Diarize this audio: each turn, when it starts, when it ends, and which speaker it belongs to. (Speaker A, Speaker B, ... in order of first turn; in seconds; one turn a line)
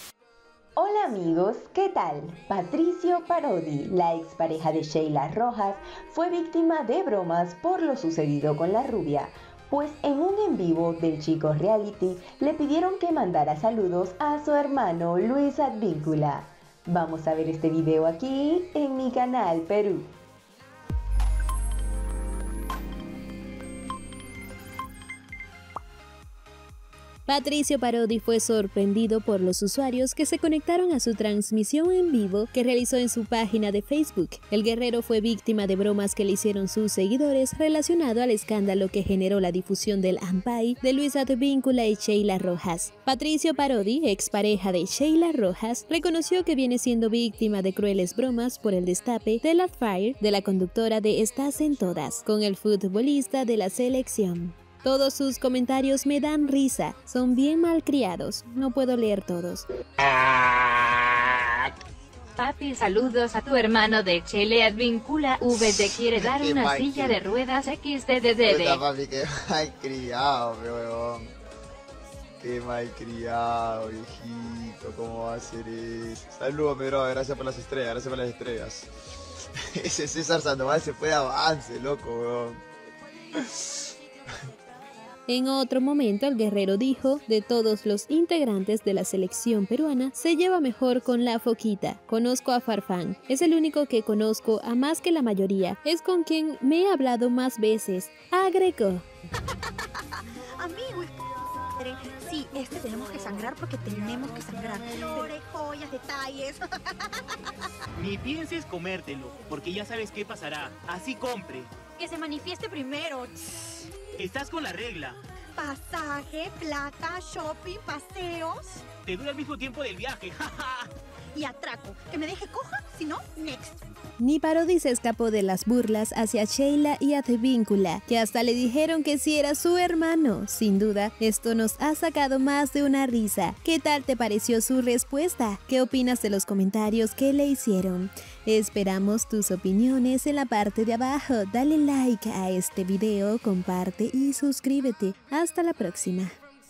Speaker A: 0.8-20.1
Speaker B: 27.3-59.6
Speaker C: 62.4-68.8
Speaker D: 66.2-67.2
Speaker D: 68.4-71.3
Speaker D: 72.4-78.9
Speaker D: 79.7-82.6
Speaker D: 83.3-83.7
Speaker B: 85.3-99.0
Speaker E: 99.7-101.2
Speaker E: 101.7-107.7
Speaker F: 108.0-111.7
Speaker E: 112.0-113.8
Speaker F: 114.2-115.2
Speaker E: 115.5-118.8
Speaker F: 119.0-120.9
Speaker E: 121.3-123.8
Speaker B: 124.2-146.4